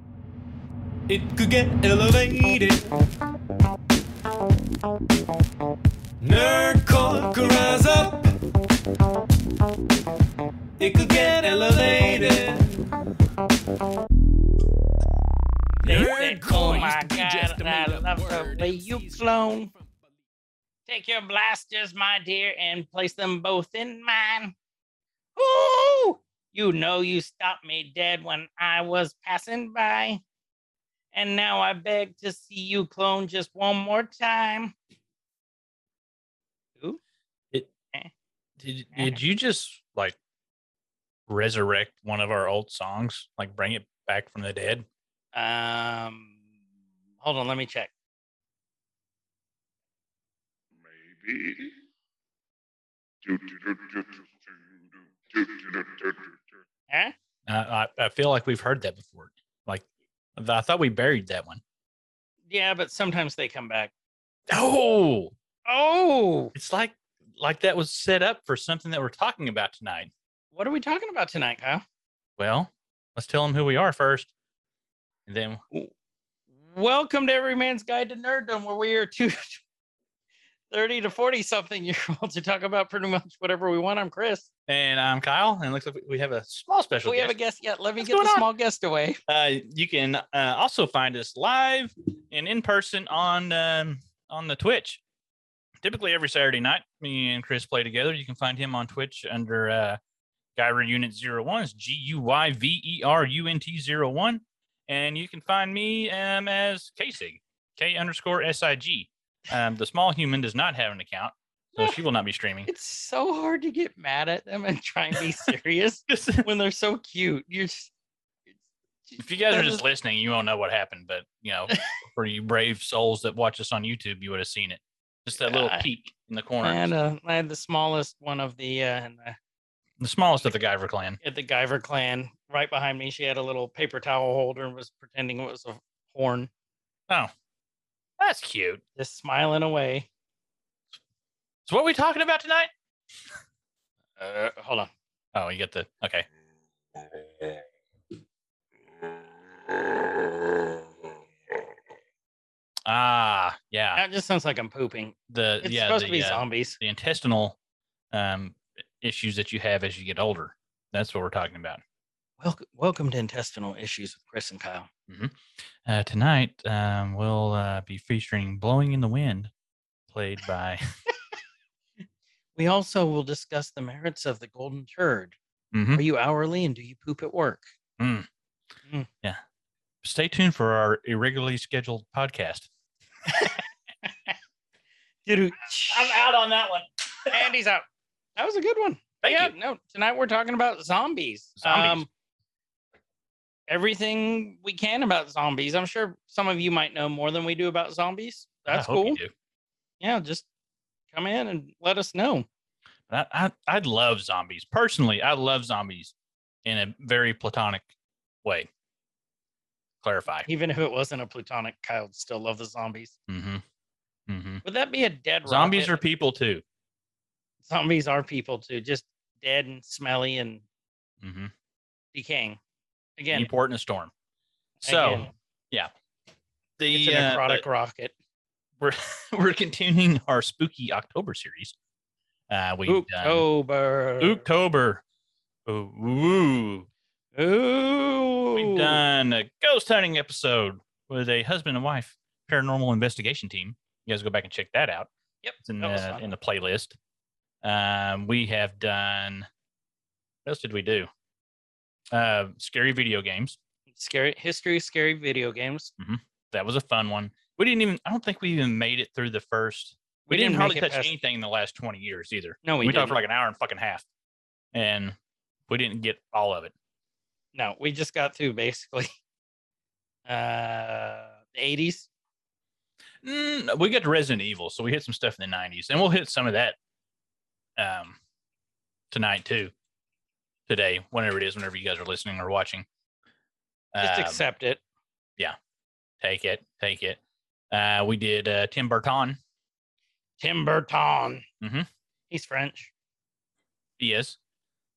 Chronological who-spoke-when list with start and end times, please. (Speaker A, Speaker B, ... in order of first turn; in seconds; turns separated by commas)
Speaker A: 1.1-2.8, Speaker A: 6.2-8.3, Speaker A: 10.8-12.7, Speaker A: 15.8-20.1, Speaker B: 15.8-19.7, Speaker B: 20.9-24.5, Speaker B: 25.4-30.2, Speaker B: 31.1-34.7, Speaker C: 38.6-40.2, Speaker C: 41.3-44.9, Speaker B: 45.3-46.4, Speaker B: 47.2-47.9, Speaker D: 50.8-51.7, Speaker D: 53.2-54.6, Speaker D: 55.3-56.4, Speaker B: 56.9-57.1, Speaker C: 57.5-61.6, Speaker B: 62.5-63.9, Speaker C: 64.5-65.3, Speaker B: 65.7-66.5, Speaker C: 66.5-70.1, Speaker B: 70.5-71.8, Speaker C: 72.4-74.3, Speaker C: 75.3-75.6, Speaker B: 76.7-79.6, Speaker B: 80.7-84.5, Speaker C: 84.7-87.3, Speaker B: 87.0-89.2, Speaker C: 88.0-88.5, Speaker C: 89.3-95.0, Speaker C: 95.8-100.0, Speaker C: 100.5-112.7, Speaker B: 112.7-117.9, Speaker C: 116.1-116.5, Speaker B: 119.0-119.8, Speaker C: 119.2-126.9, Speaker B: 125.4-125.9, Speaker B: 126.6-129.4, Speaker C: 130.0-131.2, Speaker B: 131.2-136.5, Speaker C: 138.2-138.8, Speaker B: 139.0-140.1, Speaker C: 141.7-142.7, Speaker B: 144.2-144.9, Speaker C: 145.3-146.3, Speaker C: 152.8-154.0, Speaker B: 153.9-156.8, Speaker C: 155.3-157.6, Speaker C: 158.1-161.8, Speaker B: 162.4-164.9, Speaker C: 165.1-169.5, Speaker C: 170.1-170.8, Speaker B: 172.5-175.4, Speaker C: 175.7-176.0, Speaker B: 175.9-177.7, Speaker C: 178.0-178.3, Speaker C: 180.0-182.7, Speaker B: 183.3-184.3, Speaker B: 185.2-186.2, Speaker C: 185.9-187.5, Speaker B: 187.3-187.8, Speaker B: 188.4-192.1, Speaker C: 189.2-189.5, Speaker C: 191.6-192.1, Speaker B: 193.7-199.2, Speaker C: 198.7-199.3, Speaker B: 200.0-200.4, Speaker B: 201.1-202.5, Speaker C: 203.1-206.1, Speaker C: 206.6-207.9, Speaker C: 208.4-208.7, Speaker C: 210.0-210.5, Speaker B: 210.4-213.2, Speaker C: 213.3-213.6, Speaker C: 214.3-214.6, Speaker B: 214.6-215.9, Speaker C: 215.4-216.6, Speaker B: 217.6-220.6, Speaker C: 221.2-221.5, Speaker B: 222.1-222.6, Speaker B: 223.2-223.5, Speaker C: 223.3-224.1, Speaker B: 224.8-225.3, Speaker C: 224.8-225.9, Speaker C: 226.8-227.6, Speaker B: 226.9-228.1, Speaker C: 228.8-231.7, Speaker C: 232.5-233.4, Speaker B: 232.8-234.4, Speaker C: 234.2-235.0, Speaker C: 235.7-236.9, Speaker B: 237.3-239.0, Speaker C: 238.5-245.1, Speaker B: 245.4-246.2, Speaker C: 245.6-247.0, Speaker C: 247.6-249.5, Speaker C: 250.4-251.1, Speaker C: 252.1-253.6, Speaker B: 253.9-255.9, Speaker C: 256.0-264.0, Speaker B: 260.3-261.1, Speaker B: 262.6-263.2, Speaker C: 264.7-265.1, Speaker C: 265.7-266.7, Speaker B: 267.5-269.1, Speaker B: 270.2-272.1, Speaker C: 273.2-276.8, Speaker C: 277.8-278.2, Speaker C: 279.1-279.7, Speaker C: 280.7-282.9, Speaker C: 283.9-284.4, Speaker B: 284.0-284.8, Speaker C: 286.2-287.2, Speaker C: 287.7-289.4, Speaker B: 290.4-291.4, Speaker C: 291.6-291.9, Speaker B: 292.3-292.9, Speaker C: 294.0-294.4